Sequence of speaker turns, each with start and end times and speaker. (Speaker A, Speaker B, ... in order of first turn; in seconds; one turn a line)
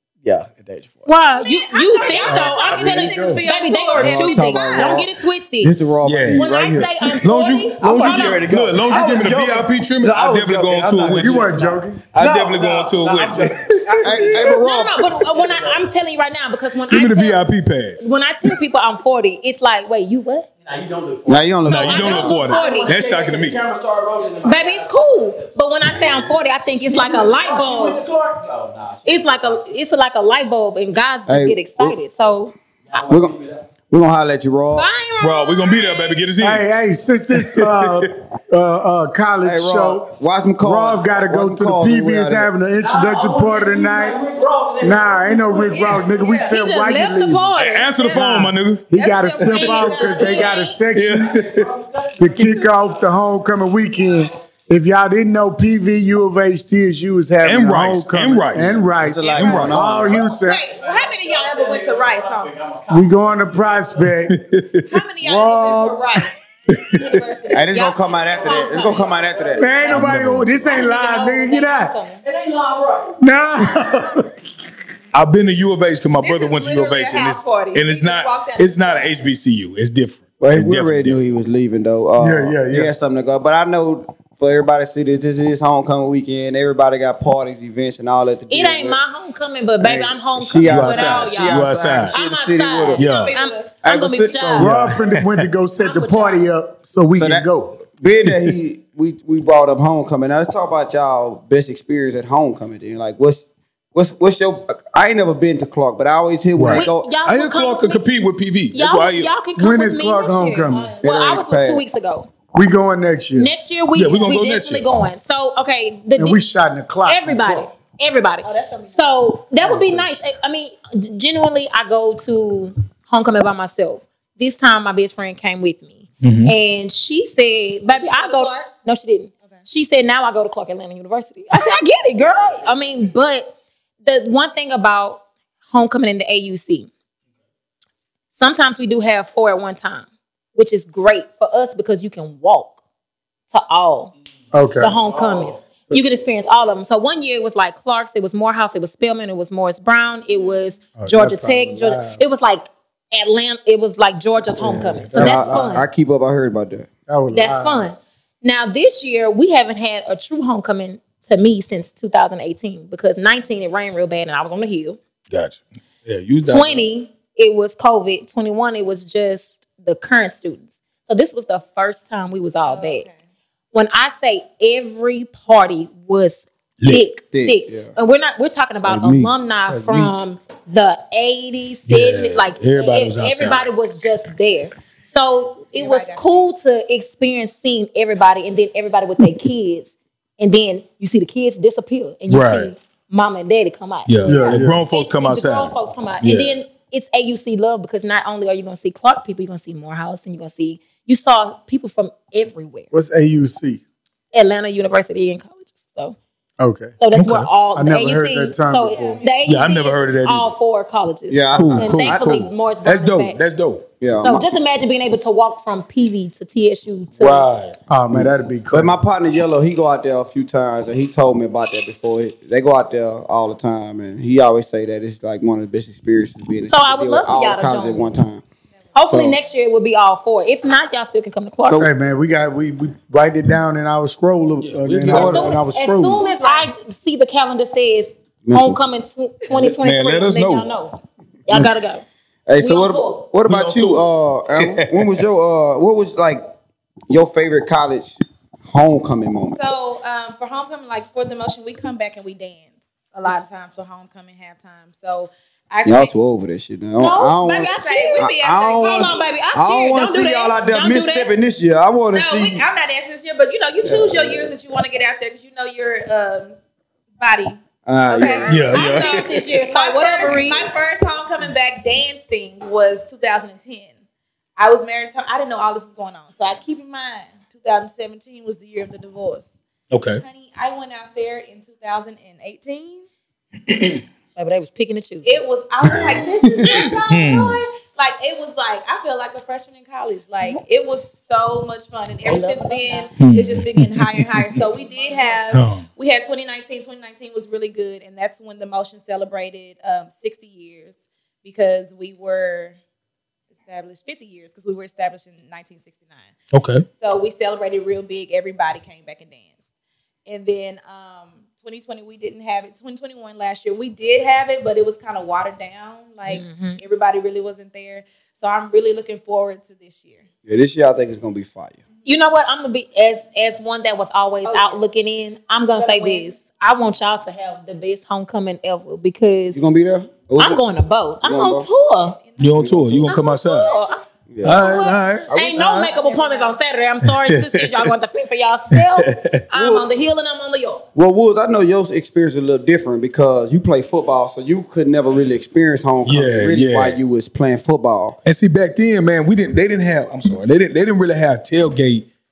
Speaker A: 0.2-1.1
Speaker B: 1.1-5.8
Speaker C: 1.4-5.0
Speaker D: 2.2-3.5
Speaker A: 2.8-3.2
Speaker E: 3.9-5.1
Speaker E: 5.6-7.2
Speaker F: 6.0-6.5
Speaker B: 6.3-8.4
Speaker F: 7.2-14.2
Speaker A: 7.8-14.6
Speaker D: 11.1-12.0
Speaker E: 14.0-15.1
Speaker B: 14.4-17.4
Speaker A: 15.3-15.8
Speaker F: 16.9-18.6
Speaker B: 18.0-20.5
Speaker A: 20.6-26.1
Speaker E: 21.3-22.4
Speaker B: 21.6-22.9
Speaker F: 21.7-23.6
Speaker B: 24.4-28.0
Speaker A: 26.7-29.6
Speaker B: 29.0-32.5
Speaker E: 31.3-32.0
Speaker A: 32.9-33.6
Speaker E: 33.1-33.3
Speaker E: 33.9-34.9
Speaker B: 34.7-36.2
Speaker F: 35.2-36.7
Speaker D: 36.4-40.1
Speaker F: 37.3-38.1
Speaker E: 39.4-42.5
Speaker D: 40.6-44.2
Speaker A: 42.8-46.0
Speaker D: 44.8-47.6
Speaker C: 45.6-46.6
Speaker B: 46.4-48.2
Speaker F: 47.5-48.9
Speaker C: 47.9-48.3
Speaker D: 48.1-51.4
Speaker C: 48.9-50.8
Speaker F: 49.4-49.9
Speaker F: 50.9-51.7
Speaker A: 51.2-53.1
Speaker D: 52.2-60.6
Speaker F: 57.4-60.1
Speaker E: 59.0-60.3
Speaker C: 60.3-62.5
Speaker A: 60.8-64.1
Speaker D: 62.9-64.4
Speaker F: 64.3-65.0
Speaker C: 64.8-69.1
Speaker D: 65.2-66.2
Speaker F: 66.7-67.2
Speaker E: 67.5-69.7
Speaker B: 67.7-69.0
Speaker A: 68.4-69.8
Speaker D: 69.6-71.9
Speaker F: 69.9-70.8
Speaker B: 70.6-72.2
Speaker A: 72.2-73.2
Speaker D: 73.2-74.3
Speaker F: 75.1-81.2
Speaker C: 76.2-79.2
Speaker E: 80.4-89.0
Speaker D: 82.2-82.9
Speaker B: 88.5-94.7
Speaker E: 89.8-93.0
Speaker F: 90.6-92.2
Speaker C: 92.8-93.8
Speaker F: 93.0-93.3
Speaker E: 93.8-94.9
Speaker D: 94.3-97.8
Speaker F: 94.6-95.5
Speaker B: 95.8-96.4
Speaker E: 97.1-107.1
Speaker F: 98.2-98.5
Speaker F: 106.5-109.4
Speaker B: 106.7-108.1
Speaker B: 108.7-112.3
Speaker D: 109.5-110.9
Speaker E: 111.0-111.8
Speaker D: 112.5-113.5
Speaker B: 113.3-116.4
Speaker F: 113.9-114.9
Speaker D: 116.1-117.7
Speaker B: 117.0-136.9
Speaker C: 118.4-119.2
Speaker D: 119.6-120.2
Speaker F: 126.2-126.5
Speaker C: 127.9-128.7
Speaker B: 138.3-142.8
Speaker B: 143.5-144.1
Speaker D: 144.5-145.0
Speaker B: 144.8-155.8
Speaker A: 145.0-145.6
Speaker D: 150.9-152.2
Speaker D: 154.6-155.8
Speaker E: 155.1-156.9
Speaker D: 157.1-157.9
Speaker B: 157.3-165.0
Speaker F: 165.3-166.8
Speaker B: 166.4-173.1
Speaker C: 172.7-173.1
Speaker B: 173.7-202.9
Speaker E: 177.3-177.9
Speaker E: 178.8-179.3
Speaker D: 179.7-180.2
Speaker F: 181.9-183.7
Speaker C: 185.7-186.5
Speaker F: 192.3-192.7
Speaker F: 194.1-196.5
Speaker D: 194.2-194.8
Speaker D: 202.9-203.8
Speaker B: 204.3-206.2
Speaker D: 206.6-207.0
Speaker B: 207.0-213.4
Speaker F: 207.1-207.5
Speaker D: 207.7-209.2
Speaker C: 208.9-209.4
Speaker F: 209.4-210.5
Speaker E: 211.3-212.5
Speaker F: 211.5-213.8
Speaker E: 214.0-214.5
Speaker B: 214.2-217.5
Speaker F: 217.2-217.8
Speaker D: 217.9-219.0
Speaker E: 218.1-228.4
Speaker B: 226.7-228.1
Speaker B: 228.9-231.9
Speaker E: 229.1-229.4
Speaker D: 231.7-236.2
Speaker F: 234.6-235.5
Speaker E: 235.0-235.6
Speaker B: 235.1-242.0
Speaker C: 236.2-236.7
Speaker E: 238.4-238.8
Speaker F: 239.5-240.7
Speaker E: 242.5-246.4
Speaker B: 242.6-243.1
Speaker F: 243.4-244.1
Speaker F: 244.6-245.2
Speaker E: 247.1-249.7
Speaker C: 249.5-256.1
Speaker E: 255.8-262.6
Speaker B: 257.0-261.3
Speaker C: 257.7-259.3
Speaker C: 262.1-266.6
Speaker E: 263.8-264.5
Speaker C: 267.2-273.9
Speaker E: 267.9-268.9
Speaker F: 268.5-269.1
Speaker B: 268.7-270.7
Speaker C: 274.6-279.5
Speaker F: 279.9-280.2
Speaker C: 280.2-283.0
Speaker F: 283.7-284.0
Speaker B: 284.4-285.3
Speaker C: 285.2-302.8
Speaker F: 285.8-287.6
Speaker B: 292.2-293.1
Speaker F: 293.2-294.6
Speaker B: 294.9-295.2
Speaker F: 295.5-295.8
Speaker C: 303.6-306.3
Speaker F: 306.5-306.9
Speaker C: 307.0-309.6
Speaker C: 310.2-320.2
Speaker B: 316.2-316.8
Speaker E: 320.4-321.8
Speaker B: 322.0-329.6
Speaker C: 324.4-324.8
Speaker C: 325.7-326.4
Speaker E: 329.5-330.6
Speaker B: 330.4-332.2
Speaker E: 331.2-331.7
Speaker C: 332.2-334.0
Speaker F: 332.4-333.7
Speaker E: 332.6-333.1
Speaker B: 333.0-334.0
Speaker E: 334.3-335.9
Speaker F: 334.4-335.3
Speaker B: 334.5-340.8
Speaker C: 334.6-336.6
Speaker F: 337.1-337.9
Speaker F: 338.7-339.4
Speaker E: 339.5-339.9
Speaker E: 340.9-348.2
Speaker F: 346.0-347.0
Speaker F: 348.2-352.1